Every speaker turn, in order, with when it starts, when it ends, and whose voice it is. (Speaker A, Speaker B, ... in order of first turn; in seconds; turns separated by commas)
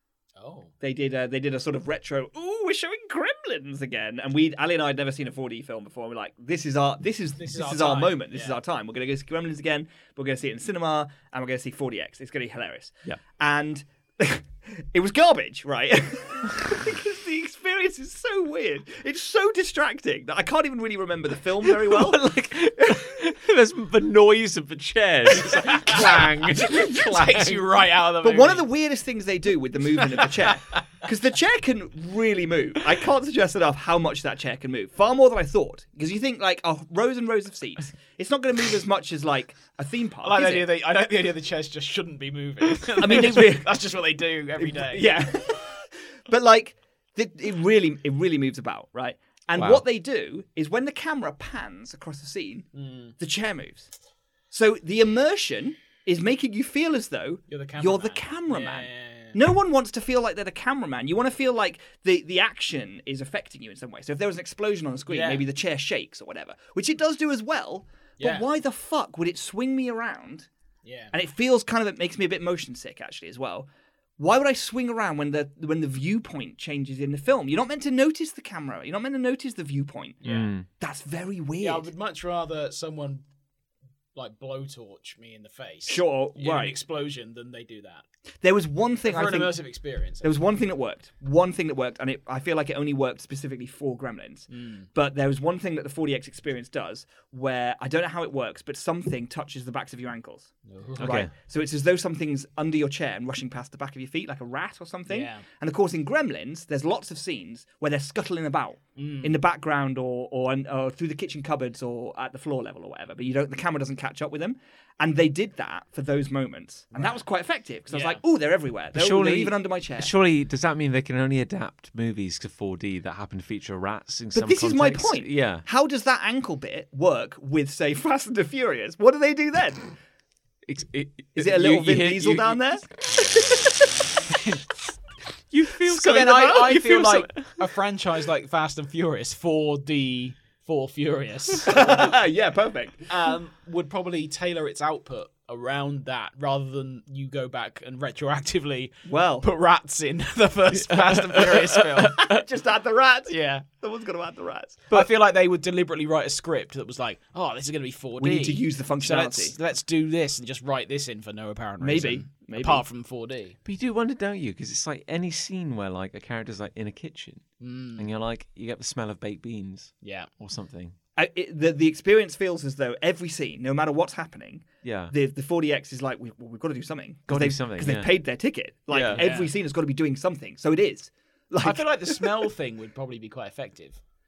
Speaker A: 0.4-0.7, Speaker B: 0.8-23.0, Speaker A: 7.4-8.6, Speaker C: 21.6-27.6, Speaker A: 25.5-28.6, Speaker B: 28.2-40.7, Speaker A: 30.2-30.8, Speaker A: 40.2-45.1, Speaker B: 43.0-43.8, Speaker B: 44.6-52.7, Speaker C: 49.5-49.8, Speaker A: 52.7-53.1, Speaker B: 53.2-53.9, Speaker B: 54.5-70.5, Speaker A: 57.5-59.4, Speaker A: 65.1-65.5, Speaker A: 68.2-68.5, Speaker A: 70.8-71.1, Speaker B: 71.1-73.7, Speaker B: 74.2-81.9, Speaker A: 80.2-80.5, Speaker C: 80.3-80.7, Speaker A: 81.6-83.2, Speaker A: 84.1-88.0, Speaker B: 85.9-86.8, Speaker B: 88.4-89.6, Speaker A: 89.0-90.3, Speaker B: 90.2-120.1, Speaker A: 94.5-94.9, Speaker A: 100.7-101.2, Speaker C: 101.0-101.3, Speaker A: 105.1-105.4, Speaker A: 109.0-109.4, Speaker A: 116.9-117.2, Speaker A: 117.9-118.2, Speaker C: 118.9-125.6, Speaker B: 124.3-129.9, Speaker C: 130.7-132.6, Speaker B: 131.3-132.9, Speaker C: 134.3-134.6, Speaker C: 135.5-137.7, Speaker A: 135.8-142.1, Speaker B: 141.7-143.1, Speaker A: 143.1-152.2, Speaker B: 149.1-149.4, Speaker C: 150.8-152.4, Speaker B: 152.0-154.8, Speaker A: 153.3-153.6, Speaker A: 154.9-163.6, Speaker B: 158.2-159.6, Speaker B: 161.8-162.8, Speaker C: 163.6-167.4, Speaker A: 167.6-168.1, Speaker C: 168.0-170.9, Speaker A: 170.0-170.3, Speaker B: 171.2-182.4, Speaker C: 174.8-175.1, Speaker C: 177.3-178.1, Speaker C: 178.9-179.2, Speaker A: 179.1-179.5, Speaker A: 181.6-184.0